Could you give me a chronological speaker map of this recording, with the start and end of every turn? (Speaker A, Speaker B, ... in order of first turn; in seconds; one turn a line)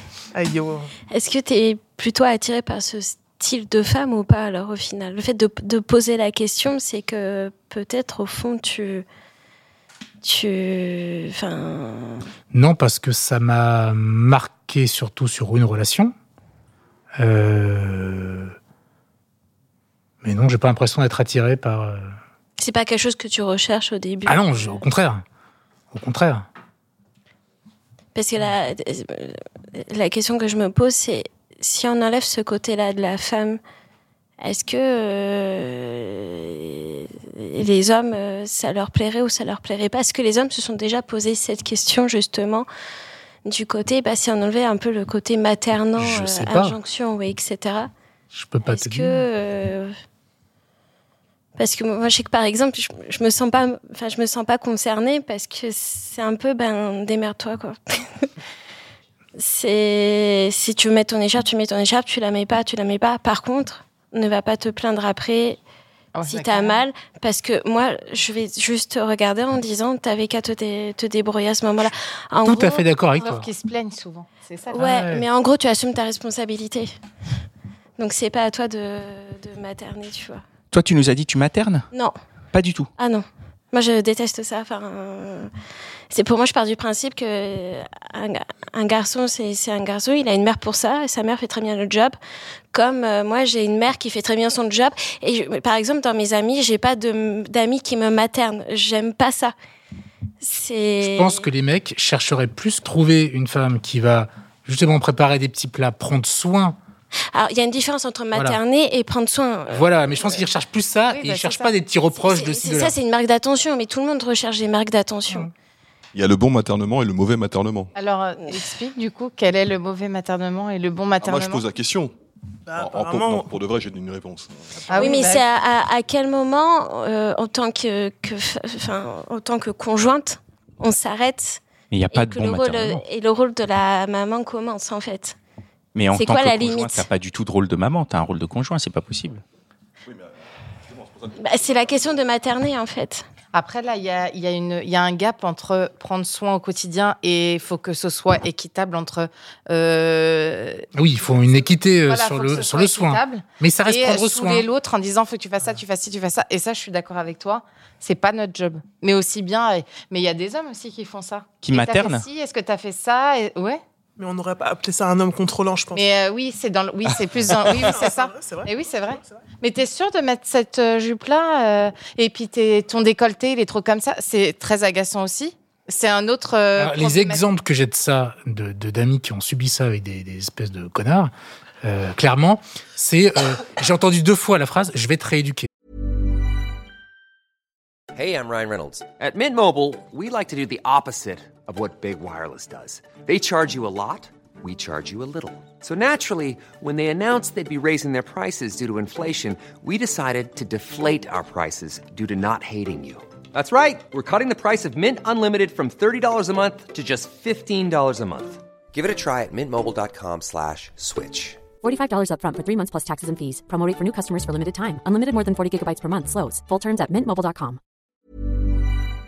Speaker A: 0.3-0.9
Speaker B: 1.1-9.1
Speaker B: 10.2-12.3
Speaker C: 12.5-16.1
Speaker C: 17.2-18.5
Speaker C: 20.2-22.1
Speaker B: 22.6-24.5
Speaker C: 24.2-25.2
Speaker C: 25.9-26.5
Speaker B: 28.1-33.6
Speaker B: 34.4-42.7
Speaker B: 43.4-47.9
Speaker C: 46.0-46.8
Speaker C: 48.3-49.2
Speaker B: 48.7-49.9
Speaker B: 51.5-58.3
Speaker B: 59.4-65.6
Speaker D: 66.1-66.8
Speaker B: 66.2-72.8
Speaker C: 72.4-73.5
Speaker D: 73.2-74.8
Speaker B: 74.7-76.9
Speaker C: 74.7-75.2
Speaker B: 78.0-80.4
Speaker E: 80.7-81.8
Speaker E: 82.5-82.9
Speaker B: 83.0-85.5
Speaker B: 86.1-92.2
Speaker B: 92.7-99.5
Speaker B: 100.4-101.4
Speaker C: 101.0-106.8
Speaker B: 107.3-109.9
Speaker C: 108.3-108.6
Speaker C: 109.7-113.0
Speaker D: 111.1-111.7
Speaker B: 112.2-115.5
Speaker F: 116.1-117.9
Speaker D: 117.9-121.6
Speaker F: 121.2-122.1
Speaker A: 122.7-123.4
Speaker F: 122.7-125.2
Speaker D: 124.9-125.4
Speaker B: 125.0-135.3
Speaker E: 131.9-133.0
Speaker E: 135.9-139.4
Speaker B: 136.1-137.1
Speaker F: 140.9-141.3
Speaker B: 141.3-143.2
Speaker D: 143.5-163.8
Speaker C: 150.9-154.6
Speaker E: 161.6-162.3
Speaker A: 164.2-166.0
Speaker D: 165.9-177.4
Speaker A: 167.6-169.4
Speaker C: 176.8-185.7
Speaker G: 188.1-211.6
Speaker H: 211.8-217.8